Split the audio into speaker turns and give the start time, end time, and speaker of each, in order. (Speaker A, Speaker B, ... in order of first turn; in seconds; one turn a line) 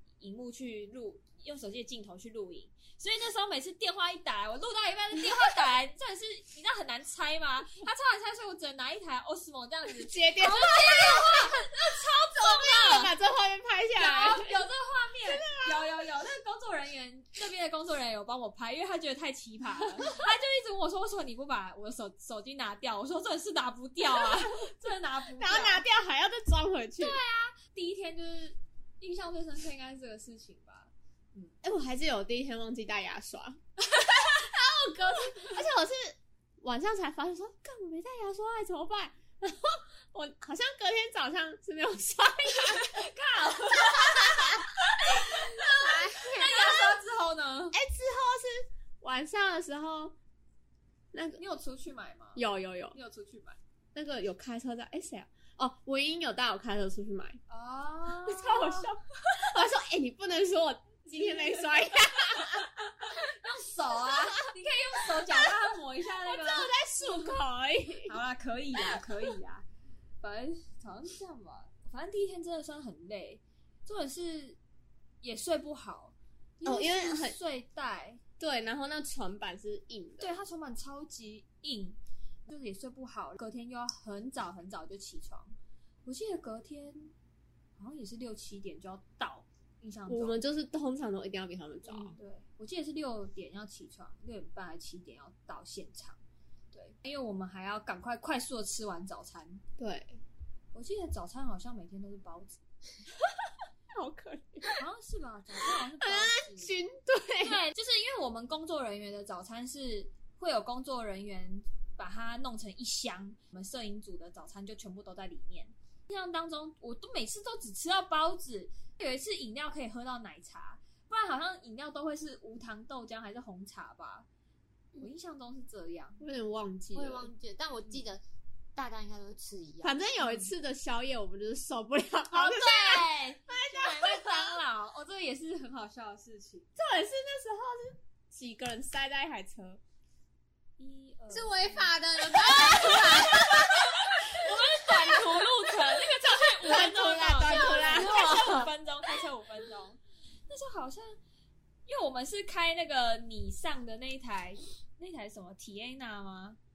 Speaker A: 0.2-13.1
Speaker B: 9.9-11.7
Speaker B: 12.3-14.6
Speaker A: 14.0-25.9
Speaker B: 15.3-15.9
Speaker B: 24.1-24.7
Speaker B: 25.4-27.2
Speaker A: 27.0-31.6
Speaker B: 31.6-33.6
Speaker A: 33.9-34.5
Speaker B: 34.3-43.1
Speaker A: 35.2-35.5
Speaker A: 42.5-47.8
Speaker B: 44.0-44.6
Speaker C: 45.6-46.9
Speaker B: 46.3-46.8
Speaker B: 47.7-50.1
Speaker B: 51.1-51.4
Speaker A: 51.4-53.6
Speaker B: 52.4-53.0
Speaker B: 54.0-57.4
Speaker A: 57.5-58.9
Speaker B: 58.2-62.7
Speaker A: 61.2-61.5
Speaker A: 62.4-67.4
Speaker B: 63.9-64.5
Speaker B: 65.0-68.1
Speaker A: 68.1-69.7
Speaker A: 70.2-74.6
Speaker A: 75.2-78.2
Speaker B: 76.7-77.4
Speaker B: 78.4-80.3
Speaker A: 80.2-85.5
Speaker A: 86.1-87.1
Speaker A: 87.8-90.4
Speaker B: 90.1-92.2
Speaker A: 91.8-96.2
Speaker A: 96.7-99.6
Speaker B: 99.8-100.2
Speaker A: 100.7-102.6
Speaker B: 103.4-104.7
Speaker A: 104.8-106.7
Speaker B: 106.0-107.6
Speaker A: 107.4-124.3
Speaker A: 125.0-126.2
Speaker B: 126.2-127.3
Speaker C: 127.0-128.2
Speaker C: 128.8-130.0
Speaker B: 129.8-134.6
Speaker A: 130.2-130.5
Speaker A: 132.3-136.7
Speaker B: 136.8-139.8
Speaker A: 140.8-141.9
Speaker C: 141.3-144.0
Speaker B: 142.5-143.7
Speaker A: 142.6-151.2
Speaker B: 146.6-148.6
Speaker C: 147.5-148.7
Speaker A: 151.9-156.6